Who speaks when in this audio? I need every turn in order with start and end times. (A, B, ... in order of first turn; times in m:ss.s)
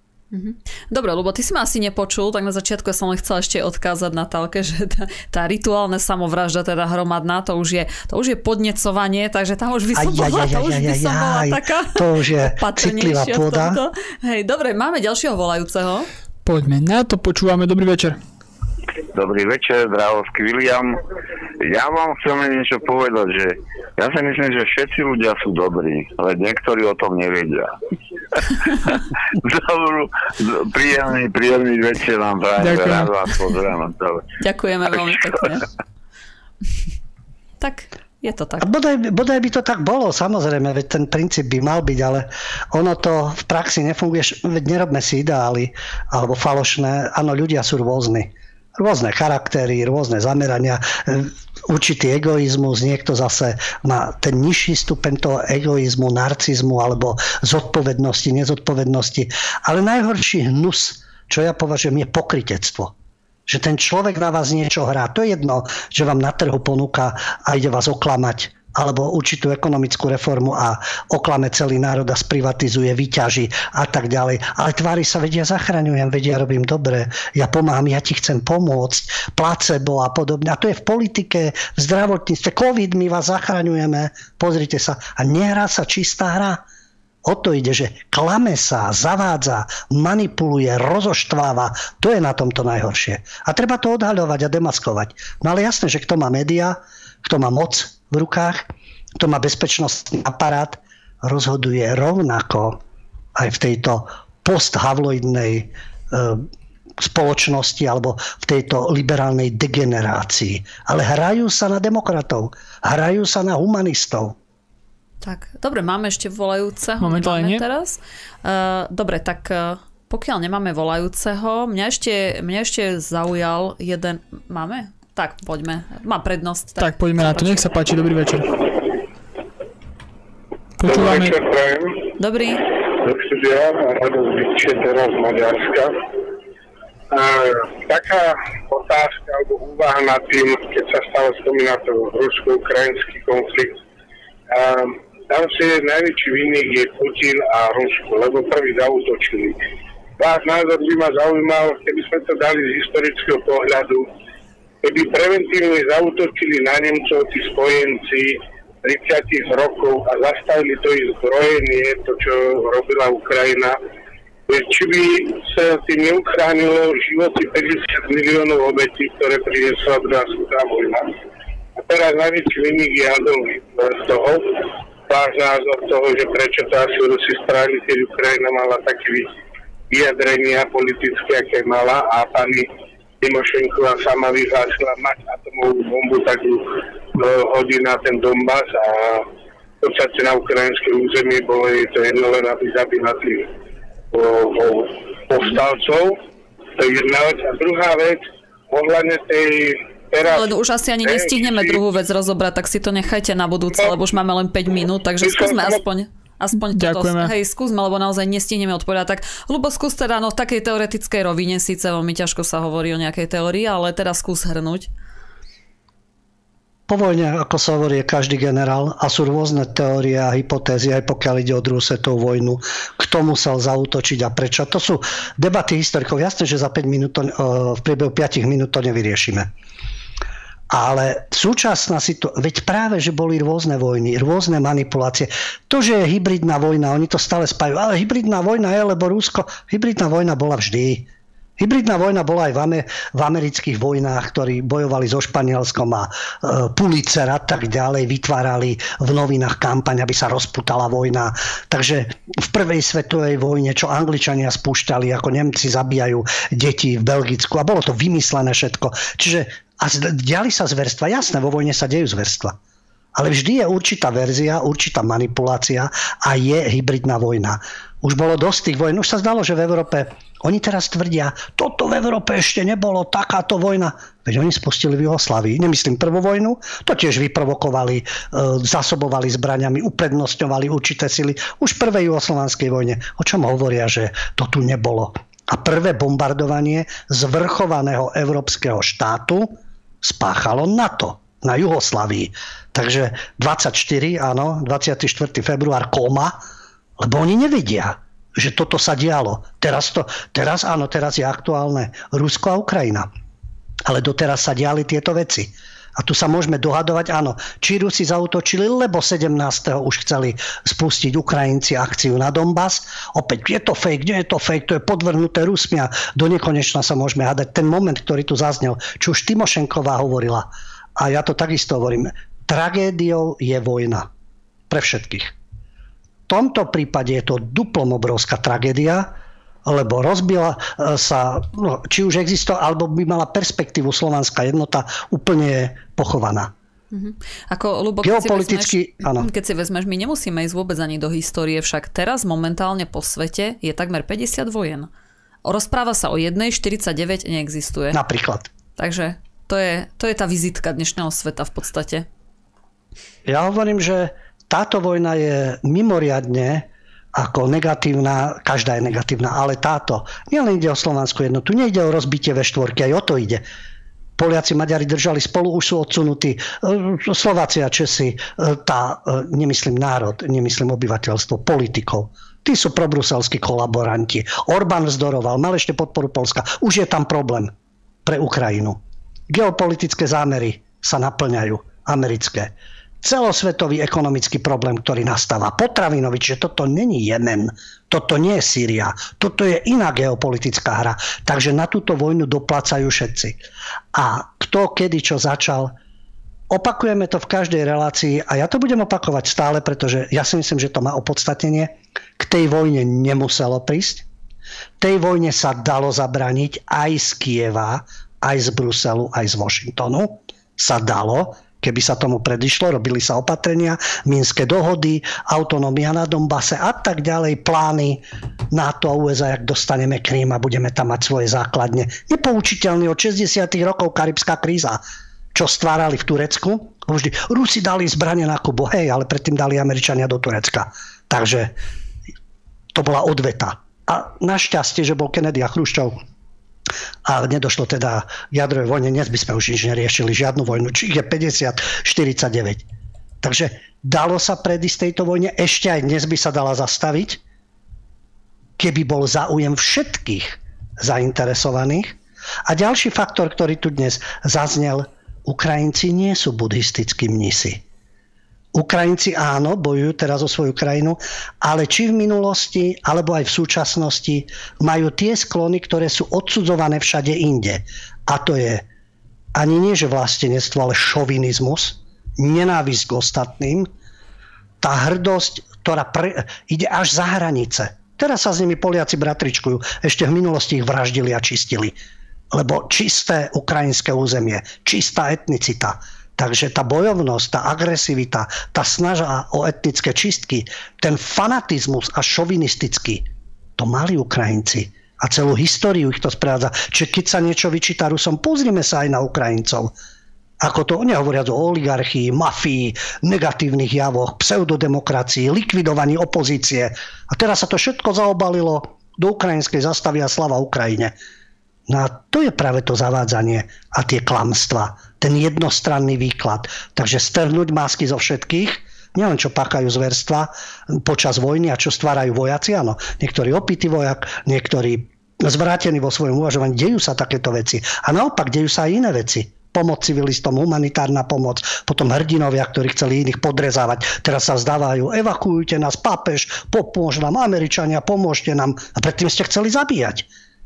0:00.3-0:16.1 A
0:09.9-0:13.8 B
0:16.4-0:18.2 C
0:19.1-0:21.0 D
0:21.6-0:27.7 D
0:28.6-0:34.2 D
0:32.6-0:33.1 C
0:34.4-0:35.6 A
0:37.6-0:38.7 A
0:38.6-1:02.9 B
1:03.5-1:26.6 B
1:27.2-1:42.8 B
1:43.4-1:46.5 B
1:47.0-1:54.4 B
1:55.2-2:07.7 A
1:57.0-1:57.6 C
2:06.8-2:08.6 C
2:10.8-2:11.4 C
2:10.8-2:12.1 E
2:12.2-2:12.7 A
2:12.9-2:15.9 E
2:17.1-2:23.8 E
2:24.5-2:29.6 E
2:30.2-2:34.1 E
2:34.8-2:43.8 E
2:44.5-2:51.1 E
2:51.8-2:59.3 E
2:59.9-3:02.7 E
3:03.2-3:09.3 E
3:09.8-3:13.5 E
3:14.1-3:16.2 E
3:16.8-3:21.8 E
3:20.3-3:34.9 A
3:25.2-3:25.8 E
3:26.7-3:27.3 C
3:36.9-3:49.5 B
3:50.7-4:22.6 B
4:23.1-4:56.4 B
4:57.0-5:03.1 B
5:03.8-5:24.1 B
5:24.7-5:25.3 B
5:26.3-5:29.1 B
5:29.6-5:36.5 B
5:36.9-5:44.9 A
5:38.0-5:39.3 B
5:45.4-5:48.0 A
5:47.9-5:48.5 B
5:48.8-5:52.1 A
5:53.3-6:03.4 B
6:04.2-6:17.5 B
6:18.0-6:33.4 B
6:33.9-6:35.8 B
6:36.5-6:44.1 B
6:44.8-7:04.8 B
7:05.3-7:11.5 B
7:12.7-7:16.0 B
7:17.0-7:22.6 B
7:23.2-7:27.2 B
7:28.6-7:37.6 B
7:38.5-7:48.6 B
7:49.3-7:53.7 B
7:54.6-8:01.8 B
8:02.3-8:13.1 B
8:13.6-8:19.7 B
8:20.4-8:30.9 B
8:31.7-9:00.1 B